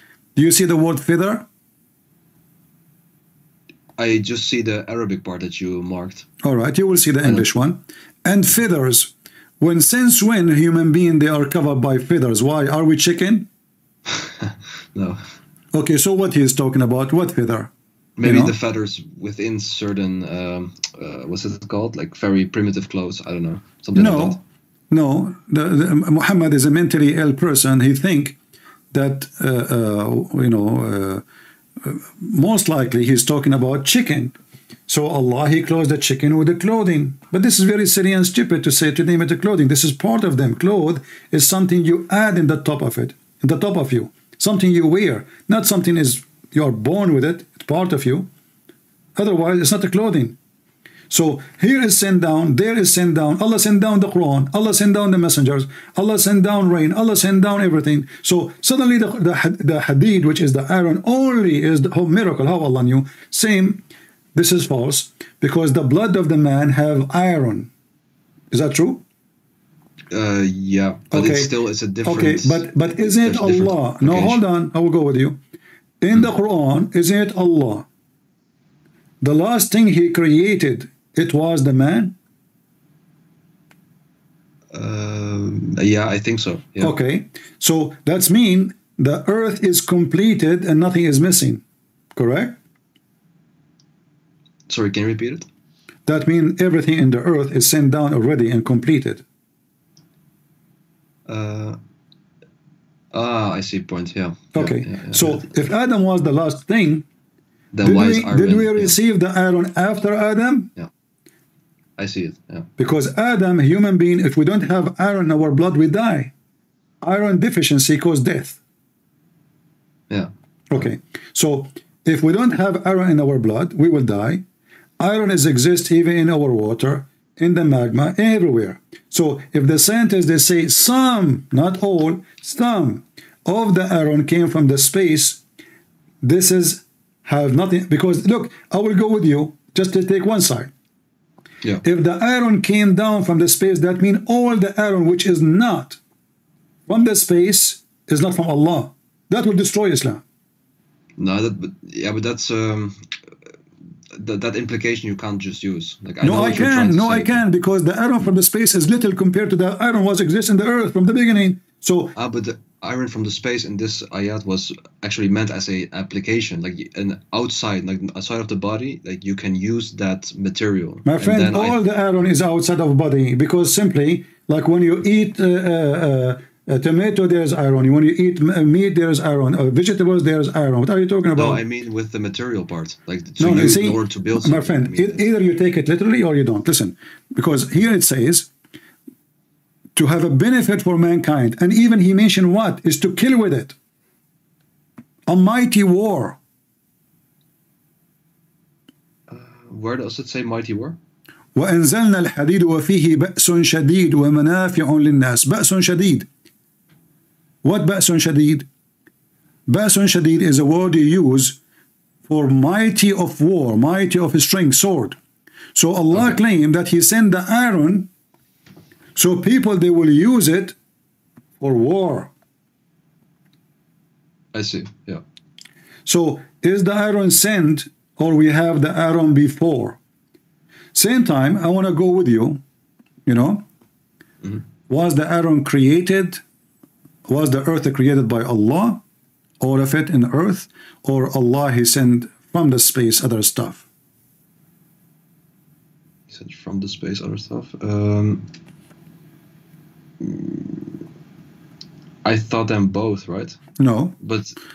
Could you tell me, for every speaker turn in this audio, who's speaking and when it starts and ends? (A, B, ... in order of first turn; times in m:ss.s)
0:00.4-0:01.5 A
0:04.0-0:06.3 B
0:06.4-0:13.5 A
0:14.1-0:15.2 B
0:15.7-0:17.7 A
0:18.2-0:24.4 B
0:18.2-0:18.6 A
0:23.9-0:24.4 A
0:24.9-0:28.4 A
0:28.9-0:31.2 A
0:31.8-0:34.4 A
0:34.9-0:48.3 A
0:49.2-0:50.4 A
0:51.1-1:03.8 A
1:04.4-1:07.7 A
1:08.5-1:09.0 A
1:10.1-1:14.4 B
1:11.1-1:11.5 A
1:12.0-1:15.4 A
1:16.0-1:17.9 A
1:19.2-1:22.2 A
1:24.7-1:26.9 B
1:26.8-1:31.6 A
1:32.2-1:32.6 A
1:34.7-1:35.5 B
1:36.1-1:39.2 A
1:41.3-1:41.8 B
1:43.1-1:45.4 B
1:44.5-1:47.0 A
1:47.7-1:49.0 B
1:47.8-1:50.7 A
1:52.0-1:52.7 B
1:52.8-1:56.3 A
1:57.0-1:58.6 A
2:00.7-2:04.4 A
2:05.0-2:15.4 A
2:16.2-2:20.7 A
2:21.8-2:26.0 A
2:26.9-2:30.2 A
2:31.2-2:33.2 B
2:34.1-2:37.4 B
2:36.2-2:42.2 A
2:42.2-2:51.8 B
2:51.1-3:01.6 A
3:01.3-3:05.3 B
3:03.4-3:08.5 A
3:09.9-3:13.8 A
3:15.3-3:16.4 A
3:19.3-3:21.0 B
3:21.6-3:26.3 A
3:27.6-3:28.7 A
3:29.7-3:31.6 A
3:32.3-3:35.2 A
3:35.8-3:38.1 A
3:36.1-3:36.4 B
3:39.2-3:40.8 A
3:41.6-3:42.3 A
3:44.5-3:45.2 B
3:46.1-3:50.0 A
3:50.9-3:52.6 A
3:53.3-3:53.7 A
3:54.9-3:56.4 A
3:57.3-3:59.0 A
3:59.6-4:03.8 A
4:06.3-4:08.5 B
4:10.2-4:11.0 B
4:12.2-4:13.6 B
4:13.8-4:14.2 A
4:14.2-4:14.6 B